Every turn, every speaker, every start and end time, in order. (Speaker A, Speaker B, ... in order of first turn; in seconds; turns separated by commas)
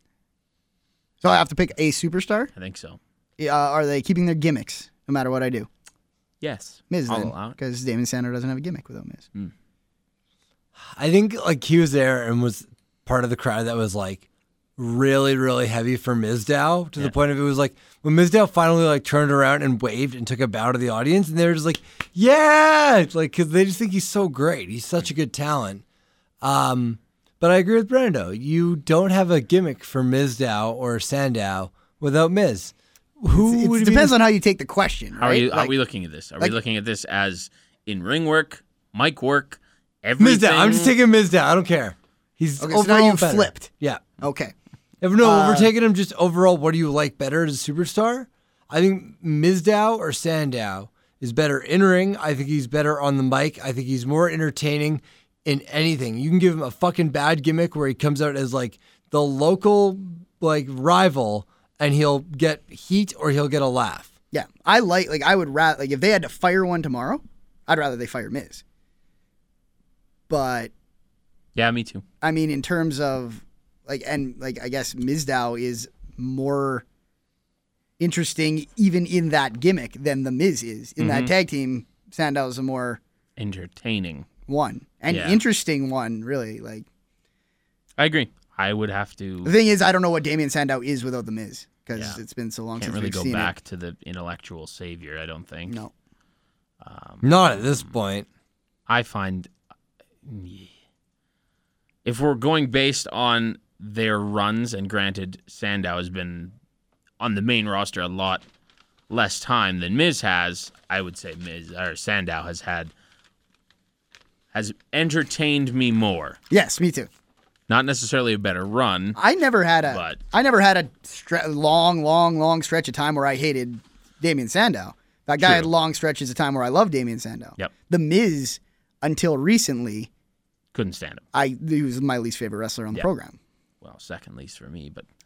Speaker A: 1.2-2.5, Speaker B: 2.5-3.0, Speaker A: 3.4-5.7, Speaker B: 6.4-7.6, Speaker A: 6.9-9.3, Speaker C: 10.9-14.2, Speaker C: 14.8-25.8, Speaker C: 26.4-34.1, Speaker A: 33.3-35.7, Speaker B: 35.2-41.0, Speaker C: 40.2-44.0, Speaker A: 42.6-44.5, Speaker C: 45.0-64.1, Speaker A: 45.2-45.7, Speaker A: 64.3-68.6, Speaker A: 70.3-70.7, Speaker B: 71.6-72.0, Speaker A: 72.2-76.8, Speaker A: 78.0-83.0, Speaker B: 81.0-81.3, Speaker B: 83.4-84.3, Speaker A: 84.5-86.9, Speaker B: 85.1-85.4, Speaker B: 88.0-89.5, Speaker A: 89.5-93.5, Speaker B: 91.9-92.2, Speaker B: 92.8-95.8, Speaker B: 96.8-97.9, Speaker C: 97.2-98.3, Speaker B: 98.9-99.5, Speaker B: 100.2-100.7, Speaker B: 102.0-106.5, Speaker B: 107.2-108.4, Speaker B: 109.1-112.9, Speaker B: 114.5-116.4, Speaker A: 116.5-117.1, Speaker B: 117.7-119.2, Speaker A: 119.2-130.1, Speaker B: 119.9-120.2, Speaker B: 125.4-125.7, Speaker B: 130.7-131.2, Speaker A: 131.3-133.4, Speaker B: 133.8-135.1